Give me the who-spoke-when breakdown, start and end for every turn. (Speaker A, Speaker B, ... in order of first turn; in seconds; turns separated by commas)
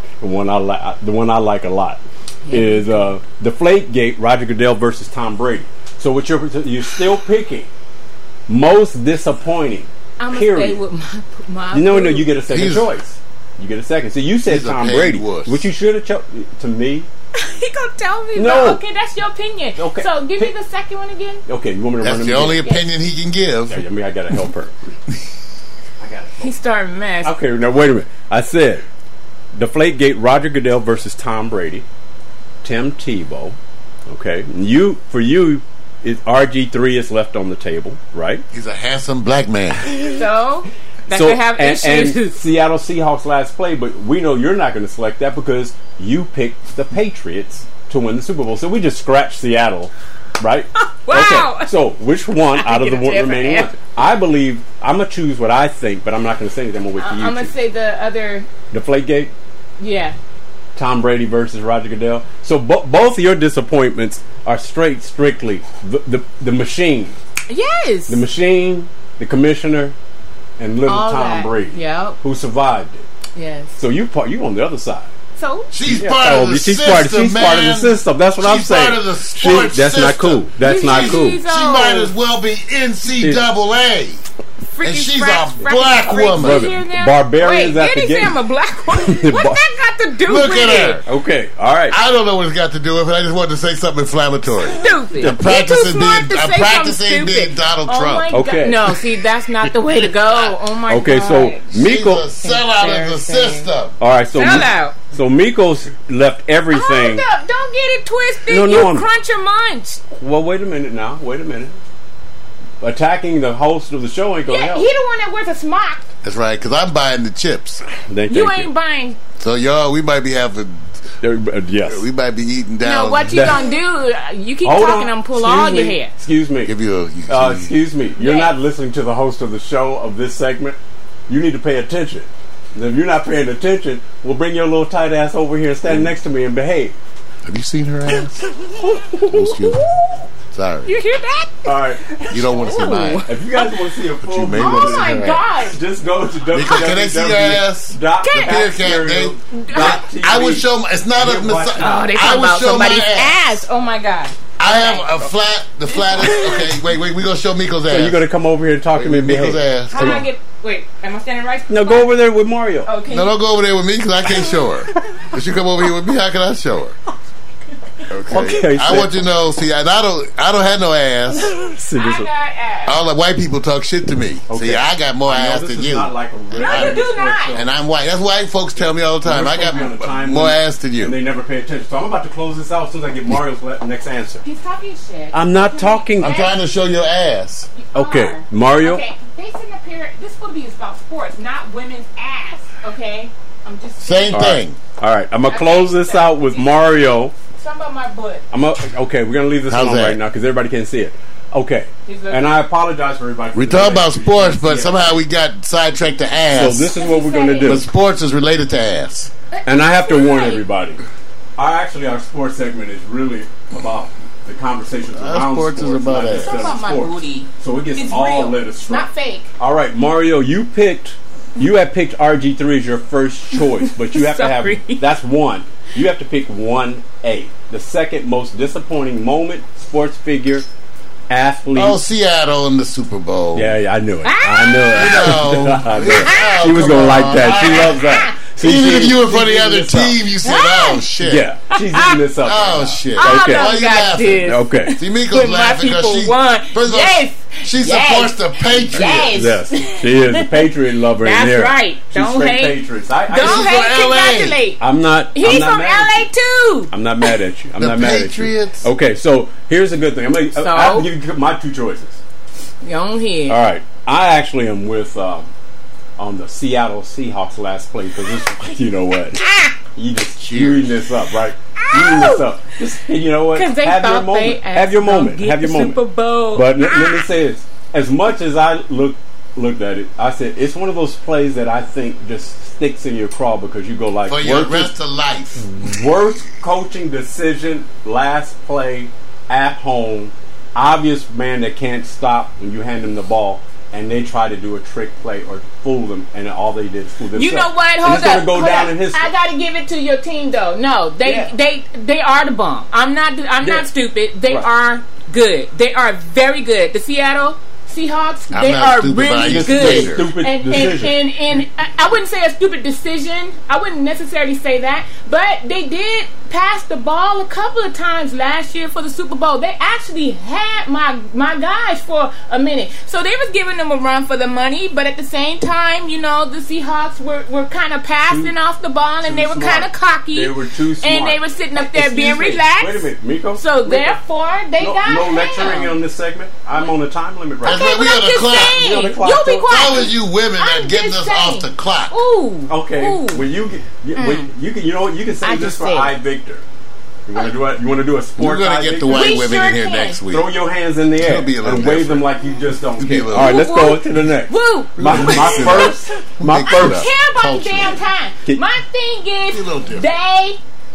Speaker A: 0.2-7.7, Speaker B: 2.5-3.1, Speaker A: 8.5-10.8, Speaker B: 10.2-12.3, Speaker A: 11.7-17.1, Speaker C: 12.5-12.9, Speaker C: 14.4-15.6, Speaker B: 17.3-21.4, Speaker A: 18.3-18.8, Speaker A: 19.8-20.5, Speaker A: 21.5-22.7, Speaker C: 22.0-23.8, Speaker A: 23.7-24.8, Speaker A: 26.0-26.5, Speaker B: 26.4-27.3, Speaker A: 27.2-28.8, Speaker A: 29.5-31.8, Speaker A: 32.6-33.5, Speaker A: 34.1-38.4, Speaker C: 38.5-39.8, Speaker A: 39.9-40.1, Speaker B: 40.0-42.4, Speaker A: 41.1-57.5, Speaker B: 50.9-51.7, Speaker B: 52.5-53.7, Speaker B: 57.0-58.5, Speaker A: 58.7-59.3, Speaker B: 59.8-60.2, Speaker A: 60.8-67.2, Speaker B: 67.5-68.2, Speaker A: 68.1-69.9, Speaker A: 70.6-73.0, Speaker B: 70.8-72.2, Speaker B: 73.3-73.7, Speaker A: 73.8-75.1, Speaker B: 75.4-75.7, Speaker C: 75.7-84.2, Speaker A: 75.8-81.4, Speaker B: 80.6-82.1, Speaker A: 83.2-83.5, Speaker B: 84.7-91.0, Speaker C: 84.8-86.7, Speaker A: 86.3-88.4, Speaker A: 89.0-89.6, Speaker C: 90.3-91.0, Speaker A: 91.0-92.0, Speaker C: 91.9-98.3, Speaker B: 94.6-101.7, Speaker A: 95.2-95.4, Speaker A: 98.3-99.0, Speaker A: 100.9-102.2, Speaker C: 101.7-103.9, Speaker B: 102.4-103.7, Speaker A: 104.0-107.2, Speaker B: 104.3-105.0, Speaker B: 106.7-110.0, Speaker A: 108.5-109.1, Speaker A: 110.2-111.7, Speaker A: 112.8-114.9, Speaker B: 114.5-116.0, Speaker C: 116.2-117.8, Speaker A: 118.1-118.7, Speaker B: 118.3-119.2, Speaker C: 119.4-120.9, Speaker A: 121.2-122.0, Speaker C: 121.8-123.6, Speaker B: 122.8-126.1, Speaker A: 123.3-123.7, Speaker A: 124.6-126.7, Speaker C: 126.6-127.7, Speaker A: 127.3-130.8, Speaker B: 128.2-128.5, Speaker A: 131.3-136.9, Speaker C: 135.8-136.1, Speaker C: 137.4-138.5, Speaker A: 138.8-139.4, Speaker C: 139.2-139.9, Speaker B: 139.8-140.2, Speaker C: 140.5-140.9, Speaker B: 140.8-141.8, Speaker A: 141.6-142.6, Speaker C: 142.3-143.3, Speaker B: 142.5-143.7, Speaker A: 143.2-152.4, Speaker C: 144.2-145.4, Speaker B: 144.6-145.8, Speaker C: 146.5-153.4, Speaker B: 148.2-148.6, Speaker B: 149.5-150.0, Speaker B: 151.7-155.1, Speaker C: 154.6-158.2, Speaker B: 155.9-156.7, Speaker A: 157.9-160.2, Speaker C: 158.9-160.2, Speaker B: 159.9-162.1, Speaker A: 161.7-162.9, Speaker B: 162.8-163.3, Speaker C: 163.1-166.9, Speaker C: 168.1-171.5, Speaker A: 168.1-169.2, Speaker A: 171.3-172.3, Speaker B: 171.9-173.0, Speaker C: 172.8-181.2, Speaker A: 174.5-177.7, Speaker B: 176.5-177.6, Speaker A: 178.8-184.4, Speaker B: 184.4-186.6, Speaker A: 185.3-186.3, Speaker C: 186.2-187.7, Speaker B: 187.8-194.6, Speaker A: 187.9-189.0, Speaker C: 194.0-194.8, Speaker A: 194.3-197.3, Speaker B: 195.5-198.4, Speaker A: 198.5-205.2, Speaker C: 199.7-200.2, Speaker B: 202.1-202.5, Speaker C: 203.5-206.9, Speaker A: 206.5-207.8, Speaker B: 206.9-207.8, Speaker C: 207.6-209.3, Speaker B: 209.5-210.6, Speaker A: 209.7-211.0, Speaker A: 211.6-230.6, Speaker C: 215.1-216.7, Speaker B: 216.3-219.5, Speaker B: 223.6-225.0, Speaker A: 231.3-232.0, Speaker C: 231.7-233.8, Speaker A: 233.5-240.2, Speaker B: 234.2-235.4, Speaker C: 234.9-238.0, Speaker B: 236.2-236.8, Speaker B: 237.3-238.3, Speaker C: 238.6-241.5, Speaker B: 240.4-241.0, Speaker A: 241.2-243.8, Speaker B: 241.7-242.2, Speaker C: 242.4-249.5, Speaker B: 243.2-250.7, Speaker A: 244.4-245.0, Speaker A: 249.0-253.9, Speaker B: 251.2-254.8, Speaker C: 253.3-254.6, Speaker A: 254.8-256.3, Speaker B: 255.3-257.4, Speaker A: 256.9-262.2, Speaker C: 257.8-258.9, Speaker B: 260.6-261.1, Speaker B: 262.8-263.6, Speaker A: 263.5-265.5, Speaker A: 266.2-276.0, Speaker B: 269.4-269.7, Speaker C: 270.4-270.9, Speaker B: 271.8-272.5, Speaker B: 273.5-277.3, Speaker A: 276.5-284.9, Speaker C: 284.3-285.6, Speaker A: 285.6-299.3, Speaker B: 297.3-335.9, Speaker A: 301.2-301.5, Speaker A: 303.6-303.9, Speaker C: 308.5-310.3, Speaker A: 309.4-311.1, Speaker A: 328.2-328.5, Speaker A: 329.2-334.2, Speaker A: 334.8-340.0, Speaker C: 337.6-338.9, Speaker B: 337.6-343.4, Speaker C: 339.7-342.1, Speaker A: 342.7-346.6, Speaker B: 344.1-344.5, Speaker B: 345.4-346.1, Speaker A: 347.3-349.5, Speaker C: 348.4-350.5, Speaker B: 349.1-350.2, Speaker A: 350.3-357.1, Speaker C: 351.2-352.4, Speaker C: 352.9-353.7, Speaker B: 353.3-355.9, Speaker C: 355.0-358.0, Speaker B: 356.6-360.6, Speaker C: 359.5-360.1